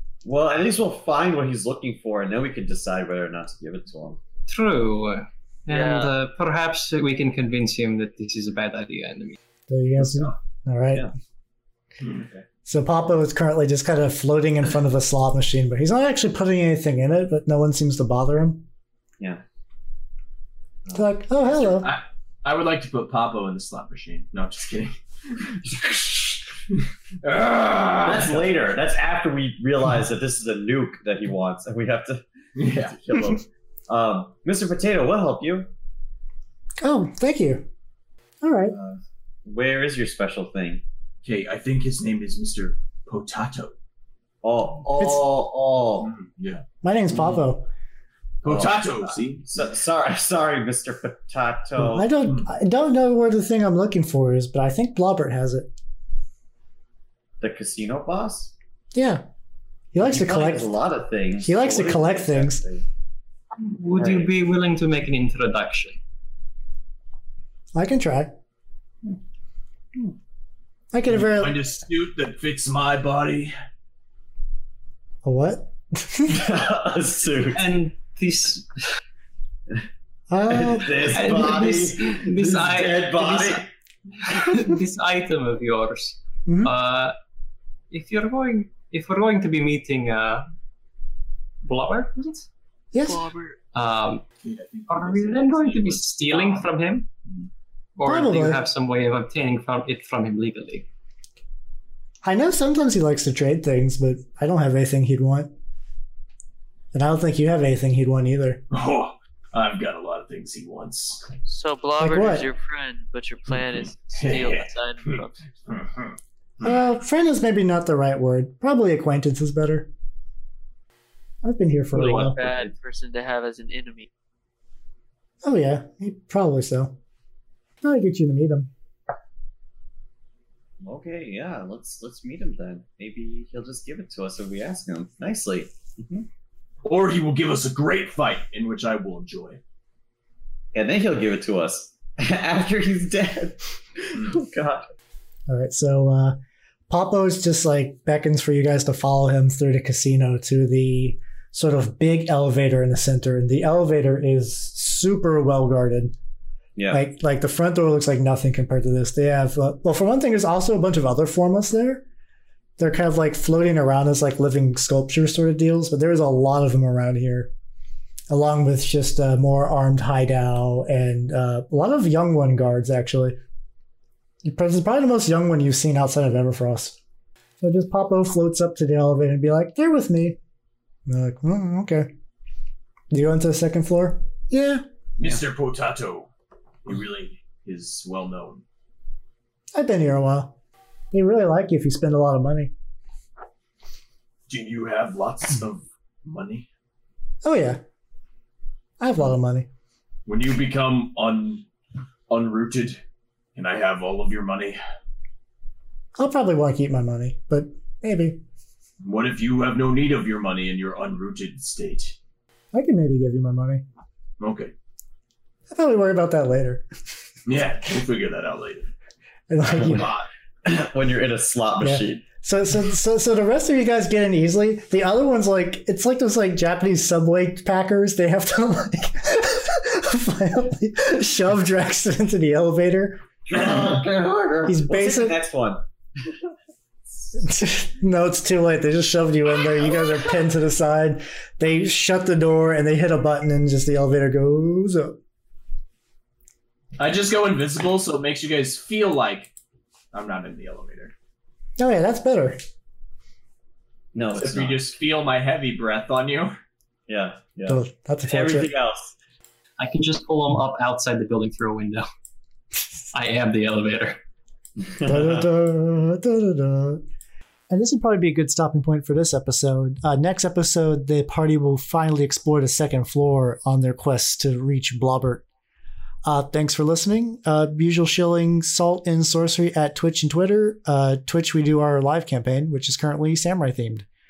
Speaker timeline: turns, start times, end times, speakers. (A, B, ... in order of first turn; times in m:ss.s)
0:00.2-0:04.2 A
0:04.5-0:09.4 B
0:05.7-0:06.1 C
0:09.7-0:11.1 D
0:10.0-0:10.3 A
0:12.0-0:12.4 E
0:12.6-0:18.6 D
0:20.8-0:21.1 A
0:20.9-0:21.9 D
0:21.5-0:25.0 E
0:25.6-0:26.4 A
0:27.2-0:28.6 E
0:28.0-0:35.7 A
0:32.6-0:33.3 E
0:36.8-0:37.7 D
0:38.4-0:38.8 D
0:38.7-0:40.8 A
0:41.2-0:43.7 E
0:44.4-0:46.1 A
0:45.0-0:45.2 D
0:46.0-0:46.6 E
0:46.8-0:47.7 D
0:47.1-0:47.4 A
0:48.4-0:49.4 E
0:48.4-0:52.1 A
0:51.8-0:55.7 D
0:57.4-0:58.5 A
0:58.9-0:59.2 D
0:59.9-1:00.7 D
1:00.0-1:02.8 A
1:01.4-1:02.6 D
1:03.6-1:06.0 B
1:04.0-1:04.3 A
1:07.7-1:08.4 D
1:10.9-1:11.6 D
1:11.1-1:13.5 E
1:15.2-1:16.5 D
1:16.3-1:17.6 A
1:17.5-1:18.7 B
1:20.3-1:21.3 D
1:20.5-1:23.7 A
1:21.1-1:23.6 B
1:24.2-1:27.2 B
1:26.4-1:26.7 D
1:27.9-1:30.4 B
1:31.6-1:32.5 B
1:32.9-1:33.3 D
1:33.0-1:33.6 C
1:33.7-1:34.2 B
1:34.4-1:36.7 E
1:34.9-1:37.1 B
1:38.0-1:40.9 B
1:38.0-1:38.6 D
1:42.2-1:45.5 D
1:46.9-1:48.6 D
1:48.7-1:51.3 E
1:51.4-1:55.5 C
1:52.0-1:52.5 D
1:54.2-1:56.8 E
1:56.6-1:59.9 D
2:01.4-2:02.4 D
2:01.9-2:04.1 C
2:02.2-2:02.7 A
2:05.4-2:07.0 D
2:07.8-2:08.7 D
2:10.8-2:16.3 A
2:16.8-2:19.6 E
2:20.7-2:24.9 A
2:25.5-2:26.4 D
2:26.9-2:36.1 D
2:36.8-2:37.0 A
2:36.9-2:42.0 D
2:42.8-2:47.5 D
2:48.3-2:53.4 D
2:54.4-2:57.0 D
2:57.6-3:00.4 D
3:01.0-3:02.1 D
3:03.1-3:04.8 D
3:05.2-3:06.3 E
3:06.8-3:08.6 E
3:09.7-3:10.6 D
3:11.1-3:12.7 D
3:14.5-3:16.7 E
3:17.4-3:17.8 D
3:19.0-3:19.7 D
3:20.2-3:21.6 E
3:22.3-3:23.0 E
3:23.6-3:24.8 E
3:26.2-3:28.4 D
3:29.0-3:32.2 E
3:32.7-3:33.8 D
3:34.4-3:34.7 E
3:35.7-3:36.9 D
3:37.4-3:38.9 E
3:39.5-3:40.1 D
3:39.8-3:40.1 A
3:39.8-3:40.2 E
3:40.6-3:42.2 A
3:41.8-3:53.2 D
3:53.5-3:55.8 A
3:54.6-3:55.4 D
3:57.3-4:05.2 D
4:07.0-4:09.5 E
4:10.1-4:11.1 E
4:11.8-4:12.6 D
4:14.1-4:14.9 A
4:14.3-4:16.6 E
4:17.1-4:19.1 A
4:17.7-4:18.7 D
4:19.8-4:22.1 B
4:23.1-4:24.2 B
4:24.8-4:25.4 A
4:25.0-4:27.0 D
4:27.7-4:35.4 D
4:36.2-4:44.0 D